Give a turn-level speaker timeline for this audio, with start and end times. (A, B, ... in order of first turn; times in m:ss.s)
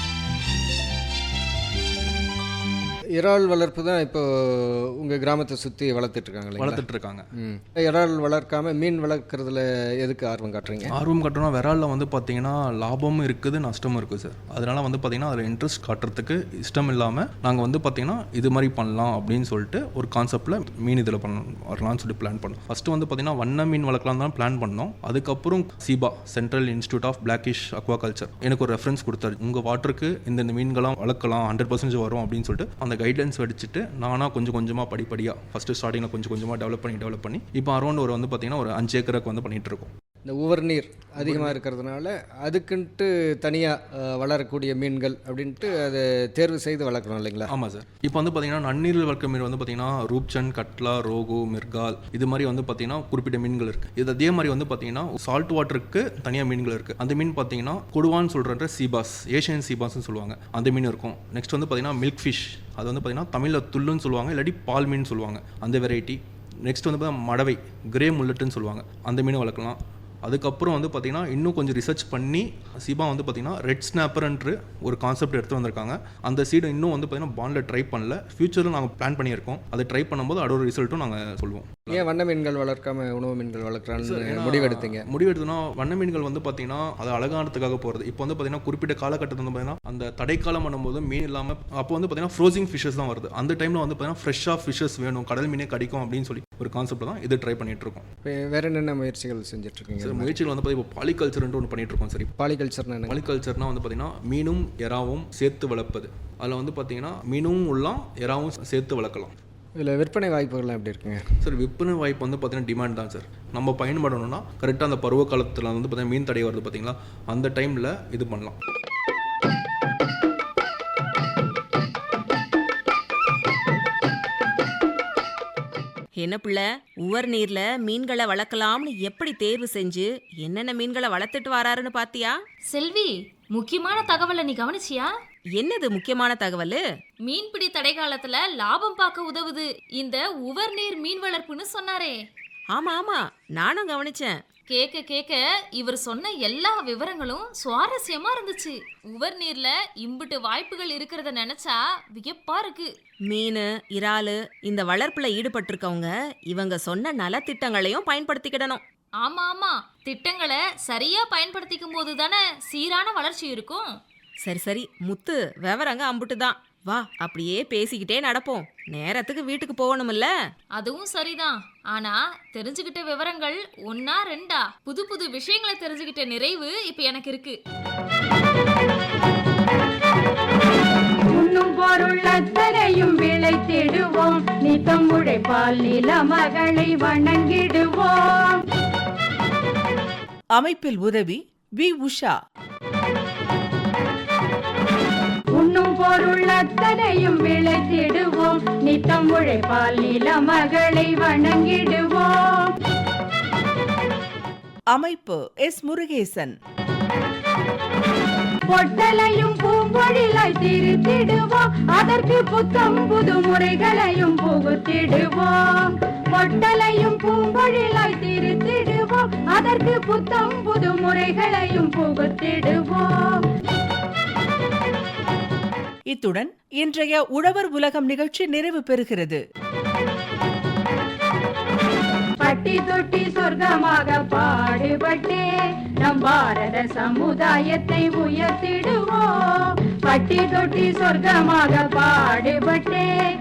0:03.2-0:06.9 A
0:06.6-0:07.3 B
0:07.4-0:11.0 A
0:10.9-0:39.9 B
0:40.3-0:47.5 A
0:41.2-0:41.6 B
0:47.5-1:22.1 B
1:21.9-1:25.1 A
1:24.0-1:38.0 B
1:38.2-1:40.3 A
1:40.0-1:42.3 B
1:42.4-1:43.2 A
1:43.1-1:49.3 B
1:49.8-1:51.5 A
1:51.4-1:58.6 B
2:06.2-2:12.4 C
2:12.7-2:15.1 D
2:15.6-2:16.8 C
2:17.3-2:22.2 D
2:22.7-2:24.4 C
2:24.7-2:32.9 D
2:33.3-2:38.8 C
2:39.2-2:43.9 D
2:44.4-2:50.3 C
2:50.8-2:57.6 D
3:01.3-3:08.6 E
3:10.6-3:12.4 F
3:15.6-3:22.7 E
3:24.9-3:26.5 F
3:28.7-3:43.4 E
3:46.1-3:49.4 F
3:52.4-3:55.4 E
3:56.0-3:59.3 E
4:00.1-4:03.1 E